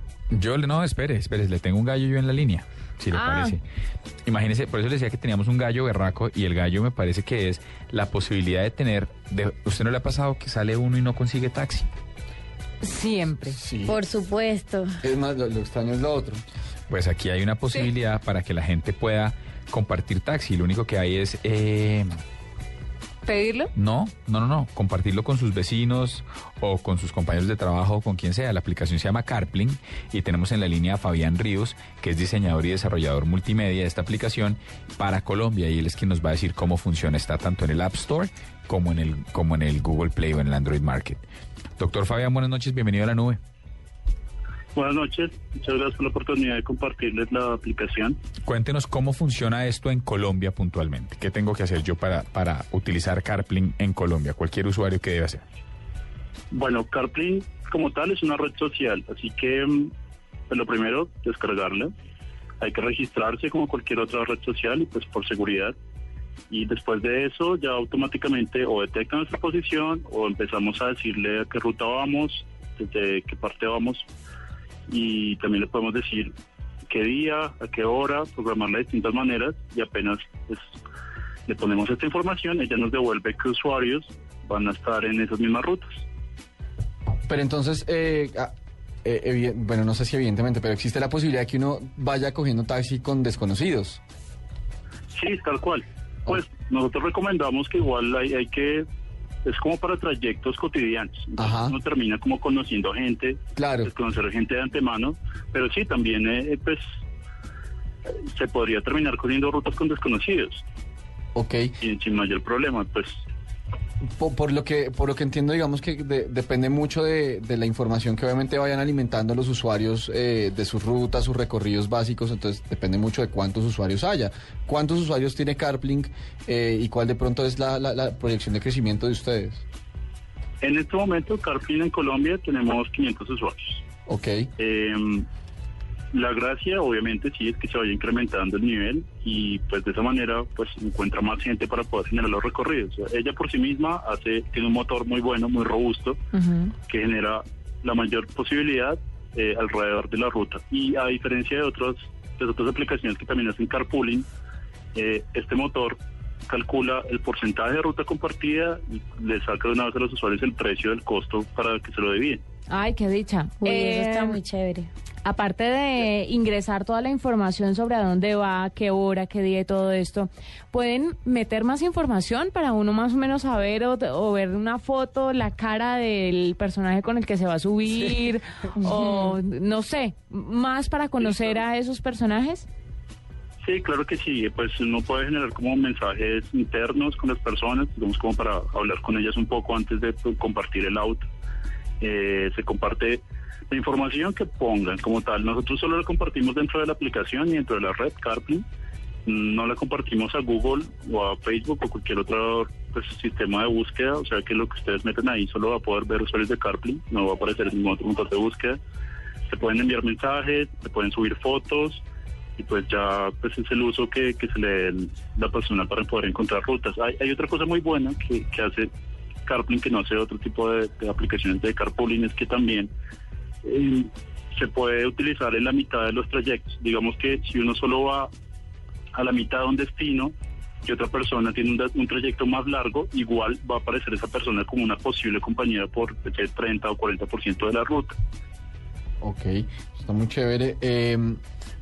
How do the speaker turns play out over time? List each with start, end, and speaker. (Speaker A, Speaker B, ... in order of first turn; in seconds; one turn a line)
Speaker A: 0.3-3.6
Speaker B: 3.1-3.6
Speaker A: 4.2-11.9
Speaker B: 12.8-13.6
Speaker C: 13.5-14.0
Speaker D: 13.9-15.0
Speaker C: 15.0-16.4
Speaker A: 16.9-22.1
Speaker B: 23.3-23.7
Speaker A: 23.8-41.2
Speaker A: 41.8-43.4
Speaker E: 44.8-48.2
Speaker A: 48.5-55.5
Speaker E: 56.5-59.9
Speaker E: 60.5-61.9
Speaker E: 62.6-65.8
Speaker E: 66.5-74.1
Speaker E: 74.9-76.3
Speaker E: 76.9-80.7
Speaker E: 81.5-86.0
Speaker C: 87.3-88.5
Speaker C: 89.0-94.0
Speaker E: 95.1-98.8
Speaker E: 99.5-106.8
Speaker C: 101.4-101.8
Speaker C: 103.6-103.9
Speaker E: 108.2-110.7
Speaker C: 111.3-111.7
Speaker E: 111.8-113.2
Speaker C: 114.2-129.7
Speaker E: 130.6-133.8
Speaker C: 134.1-134.5
Speaker E: 134.6-135.3
Speaker E: 136.1-146.2
Speaker B: 146.3-146.7
Speaker E: 146.9-154.3
Speaker E: 154.9-156.0
Speaker E: 156.5-162.4
Speaker B: 162.7-164.4
Speaker D: 163.6-164.9
Speaker B: 165.2-182.7
Speaker D: 178.8-179.3
Speaker E: 181.2-181.7
Speaker E: 183.6-191.2
Speaker E: 192.0-198.7
Speaker E: 199.3-208.8
Speaker E: 209.5-212.0
Speaker E: 212.6-218.9
Speaker E: 219.4-222.9
Speaker E: 223.6-228.3
Speaker E: 229.1-230.3
Speaker E: 230.8-238.2
Speaker C: 239.2-241.4